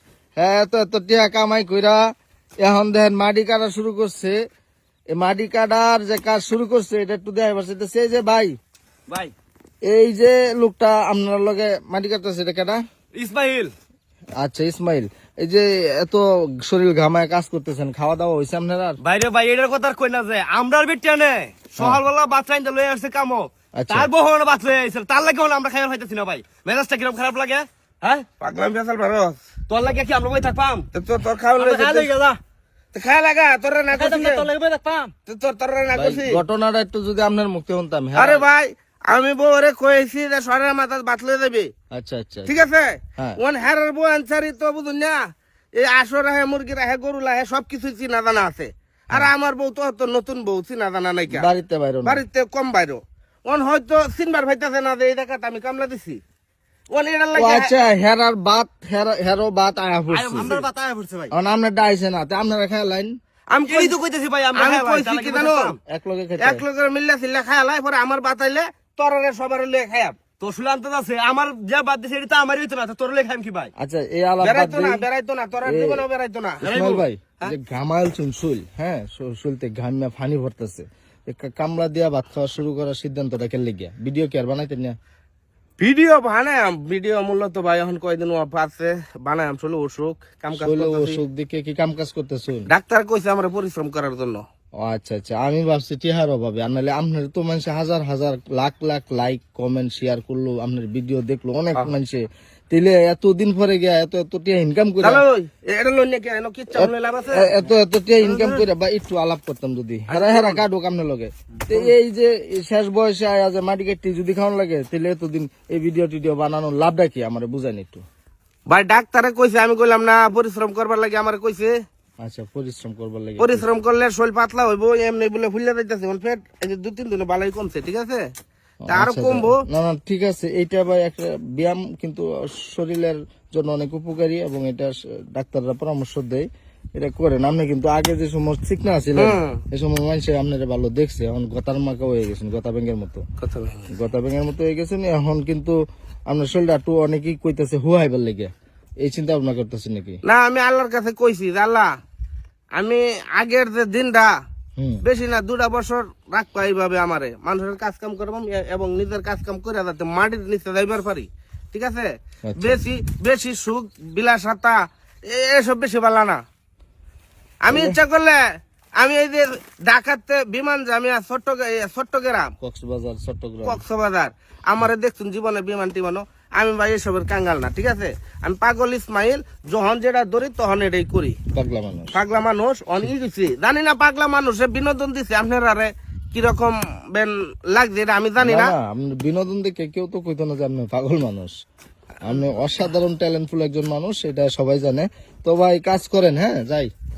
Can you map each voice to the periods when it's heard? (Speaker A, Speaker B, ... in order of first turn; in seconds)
Speaker A: 0.4-2.0, 2.6-4.4, 5.1-8.6, 9.9-12.8, 14.4-19.0, 23.8-24.1, 35.9-38.5, 41.9-42.5, 51.3-52.2, 57.4-60.5, 61.3-63.1, 65.9-66.6, 73.8-75.0, 75.7-76.0, 76.6-85.0, 90.5-92.7, 94.8-105.2, 106.8-118.0, 122.2-123.7, 128.9-143.2, 143.9-145.8, 146.3-150.2, 162.5-162.8, 167.7-168.0, 172.6-173.8, 181.5-182.2, 188.4-191.5, 192.2-196.9
Speaker B: 9.1-9.3, 13.2-13.7, 19.0-28.3, 29.7-30.9, 31.6-32.4, 33.9-35.1, 60.1-61.3, 63.7-65.8, 70.4-73.7, 76.6-77.0, 108.2-108.6
Speaker C: 28.4-29.4, 30.9-32.1, 32.9-34.5, 35.3-36.4, 38.2-41.7, 42.5-45.2, 45.8-51.5, 52.0-56.2, 56.9-57.7, 63.5-64.0, 64.6-65.7, 66.4-70.2, 74.4-76.7, 85.8-91.2, 92.7-94.4, 105.0-107.5, 110.1-110.6, 118.7-121.8, 123.4-128.3, 128.9-129.6, 139.2-139.6, 143.4-143.8, 150.2-151.9, 152.8-154.3, 155.0-164.8, 165.3-166.4, 167.7-168.4, 169.0-172.5, 173.7-181.4, 182.1-188.7